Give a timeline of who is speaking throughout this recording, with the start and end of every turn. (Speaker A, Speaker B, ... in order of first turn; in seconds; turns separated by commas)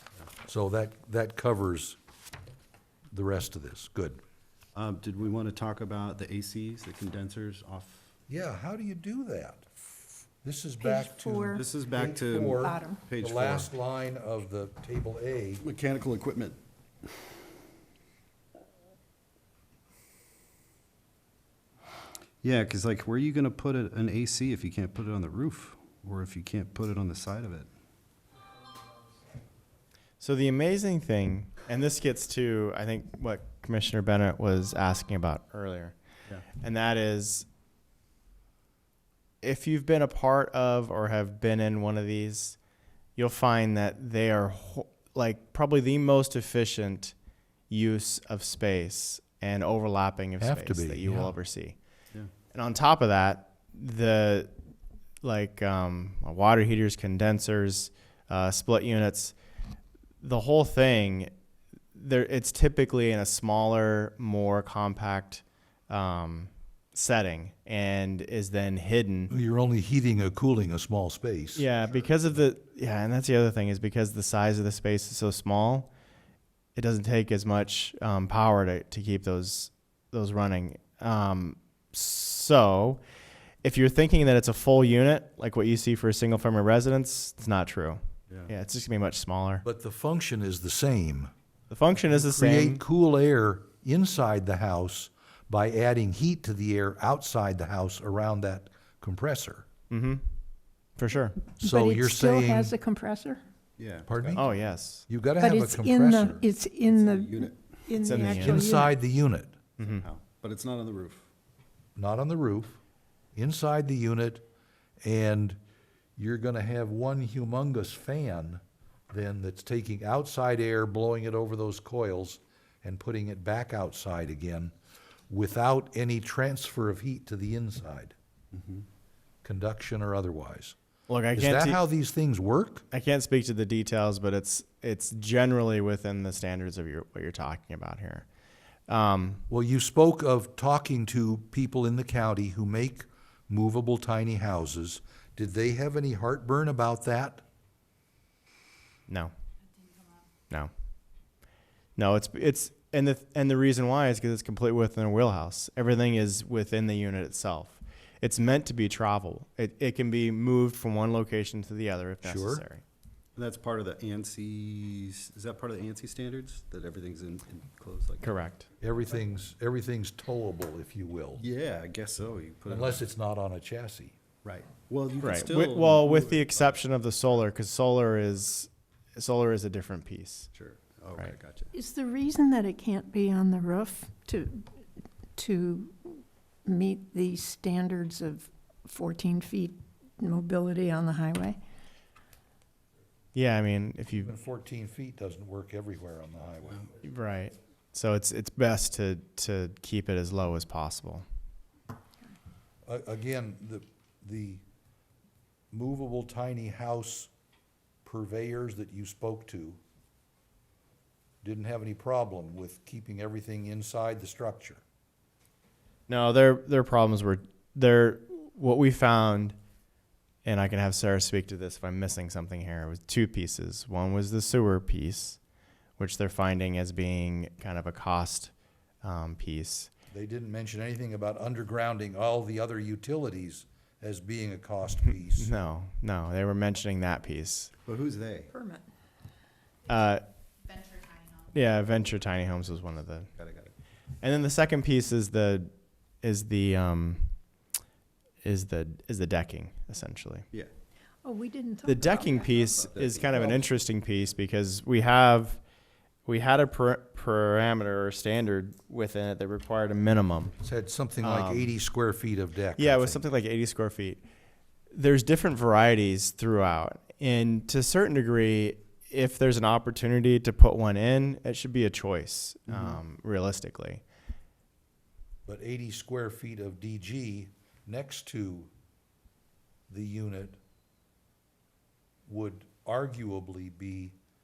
Speaker A: 0.4-2.0, Speaker A: 3.1-4.2, Speaker B: 4.7-8.1, Speaker A: 8.3-9.7, Speaker A: 10.4-15.6, Speaker C: 10.8-11.6, Speaker B: 11.5-13.7, Speaker C: 12.5-13.0, Speaker B: 15.6-16.6, Speaker B: 22.4-27.7, Speaker D: 30.2-35.9, Speaker D: 36.6-37.5, Speaker D: 39.4-42.6, Speaker D: 43.1-47.1, Speaker D: 47.7-51.8, Speaker A: 50.4-51.4, Speaker D: 52.5-54.5, Speaker D: 55.2-59.4, Speaker D: 60.2-61.3, Speaker D: 61.9-69.3, Speaker A: 69.3-71.7, Speaker D: 71.5-75.9, Speaker D: 76.8-83.0, Speaker D: 83.6-89.7, Speaker A: 89.6-91.3, Speaker D: 91.7-92.8, Speaker A: 92.0-99.7, Speaker D: 99.9-100.2, Speaker D: 101.0-101.4, Speaker C: 101.4-103.4, Speaker A: 101.6-102.8, Speaker B: 103.8-104.5, Speaker A: 104.1-104.4, Speaker D: 104.3-105.0, Speaker A: 105.1-106.5, Speaker C: 105.4-108.9, Speaker B: 106.8-107.7, Speaker D: 108.0-108.8, Speaker A: 108.4-109.5, Speaker D: 109.8-110.0, Speaker B: 109.8-111.3, Speaker A: 112.0-112.8, Speaker A: 113.3-114.4, Speaker A: 115.0-115.6, Speaker A: 116.2-124.7, Speaker A: 125.3-128.1, Speaker B: 128.5-128.8, Speaker A: 129.4-130.8, Speaker D: 131.1-131.8, Speaker A: 131.3-132.8, Speaker D: 132.9-138.2, Speaker D: 138.9-139.4, Speaker A: 139.5-147.4, Speaker D: 151.9-162.8, Speaker A: 162.2-162.6, Speaker B: 163.3-168.3, Speaker D: 168.2-168.7, Speaker A: 168.8-171.4, Speaker B: 171.4-173.1, Speaker A: 172.7-174.2, Speaker B: 174.4-176.8, Speaker D: 175.2-180.5, Speaker B: 180.5-181.7, Speaker C: 181.7-184.8, Speaker C: 185.3-191.6, Speaker D: 193.3-194.3, Speaker A: 194.2-196.9, Speaker D: 197.0-201.2, Speaker A: 202.8-204.6, Speaker A: 205.7-207.3, Speaker A: 208.0-209.8, Speaker A: 211.4-214.8, Speaker D: 216.1-219.6, Speaker D: 220.4-225.4, Speaker D: 226.0-229.9, Speaker A: 230.1-235.5, Speaker D: 235.1-237.7, Speaker B: 237.8-238.5, Speaker C: 238.5-238.9, Speaker D: 239.9-240.2, Speaker D: 241.5-243.3, Speaker B: 243.3-243.7, Speaker D: 244.2-245.7, Speaker D: 246.2-247.4, Speaker D: 248.4-250.4, Speaker C: 251.2-252.7, Speaker D: 251.8-255.6, Speaker B: 252.8-253.6, Speaker D: 256.2-260.6, Speaker A: 260.6-263.2, Speaker D: 261.2-261.7, Speaker D: 262.7-264.2, Speaker D: 264.9-274.0, Speaker B: 272.7-273.0, Speaker A: 275.5-278.7, Speaker A: 279.9-280.6, Speaker A: 282.3-284.1